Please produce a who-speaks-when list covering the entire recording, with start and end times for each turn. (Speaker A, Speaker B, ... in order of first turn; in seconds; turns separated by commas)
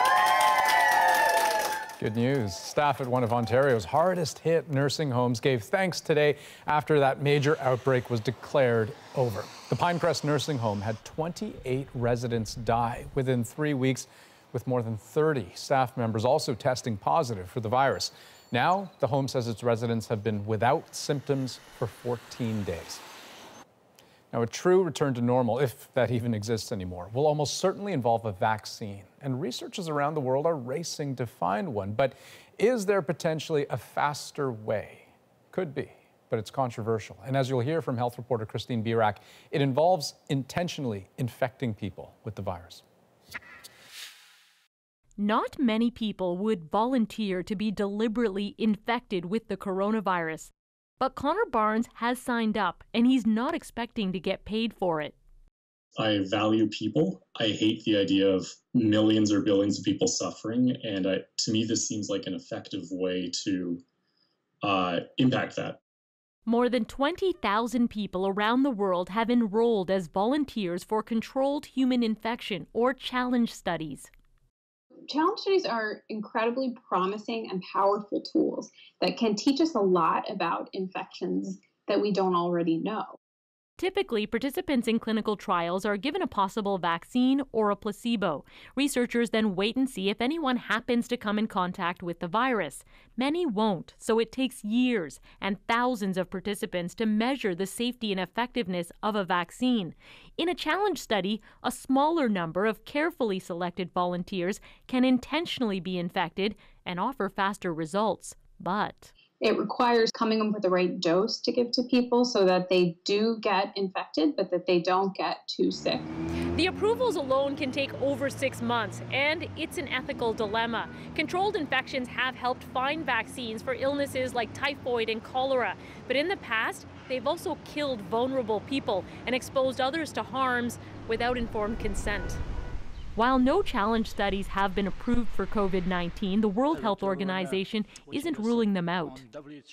Speaker A: 2.0-23.0, Speaker A: 24.3-42.8, Speaker B: 45.2-55.1, Speaker C: 56.0-63.8, Speaker C: 64.6-65.8, Speaker B: 66.5-74.1, Speaker D: 75.1-83.2, Speaker B: 83.8-109.1, Speaker D: 109.4-116.1, Speaker B: 116.5-132.4, Speaker B: 133.1-139.2